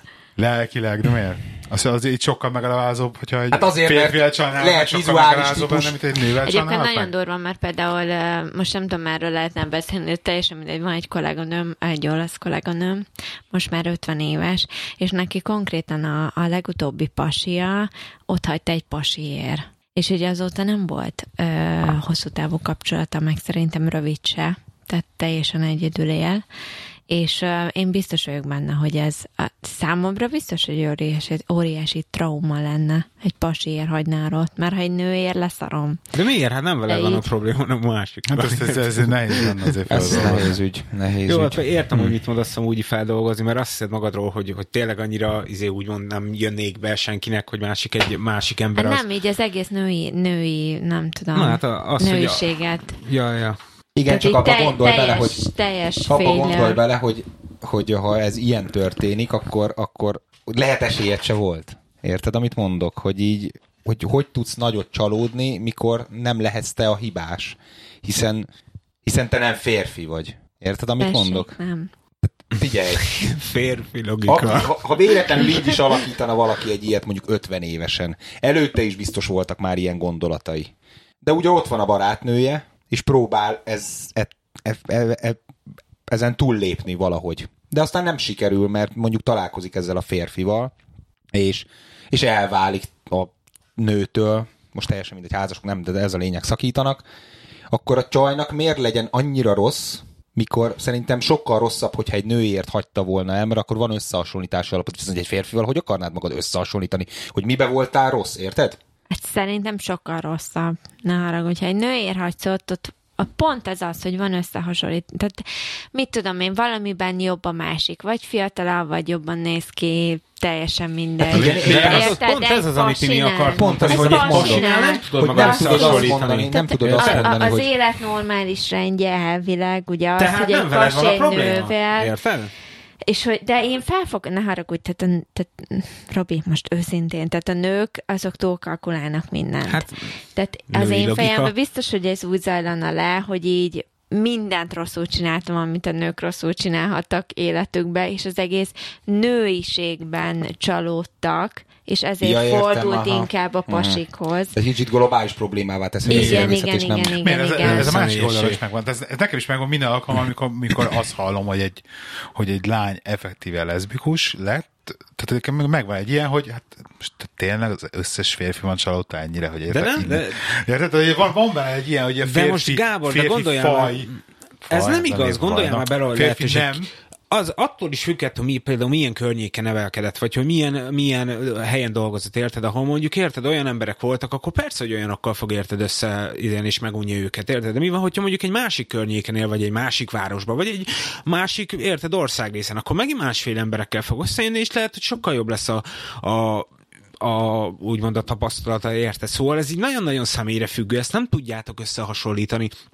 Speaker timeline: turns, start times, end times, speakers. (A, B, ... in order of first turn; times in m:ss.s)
0:00.4-0:07.1 A
0:03.5-0:06.0 B
0:06.4-0:26.4 C
0:27.1-0:36.0 C
0:36.1-0:40.4 D
0:36.9-0:37.2 C
0:38.3-0:40.6 A
0:39.9-0:41.6 B
0:41.2-0:49.0 D
0:48.7-0:53.0 C
0:51.3-0:53.6 D
0:54.0-0:55.4 B
0:54.1-0:56.8 C
0:56.0-1:08.5 B
1:09.0-1:11.5 B
1:11.0-1:11.9 C
1:12.3-1:13.1 B
1:13.0-1:14.9 D
1:14.2-1:25.4 B
1:26.1-1:30.7 B
1:31.3-1:37.0 B
1:37.7-1:48.8 B
1:49.1-2:12.1 C
2:01.2-2:02.2 B
2:01.3-2:07.4 D
2:03.5-2:07.7 B
2:10.2-2:12.5 D
2:13.1-2:34.6 C
2:19.7-2:20.0 D
2:20.7-2:21.5 D
2:32.2-2:34.0 B
2:34.5-2:37.2 B
2:36.1-2:36.5 D
2:36.1-2:37.9 C
2:37.2-2:54.1 A
2:37.6-2:38.6 D
2:49.7-2:50.4 D
2:52.2-3:16.7 D
2:54.7-2:56.9 A
3:17.2-3:22.7 D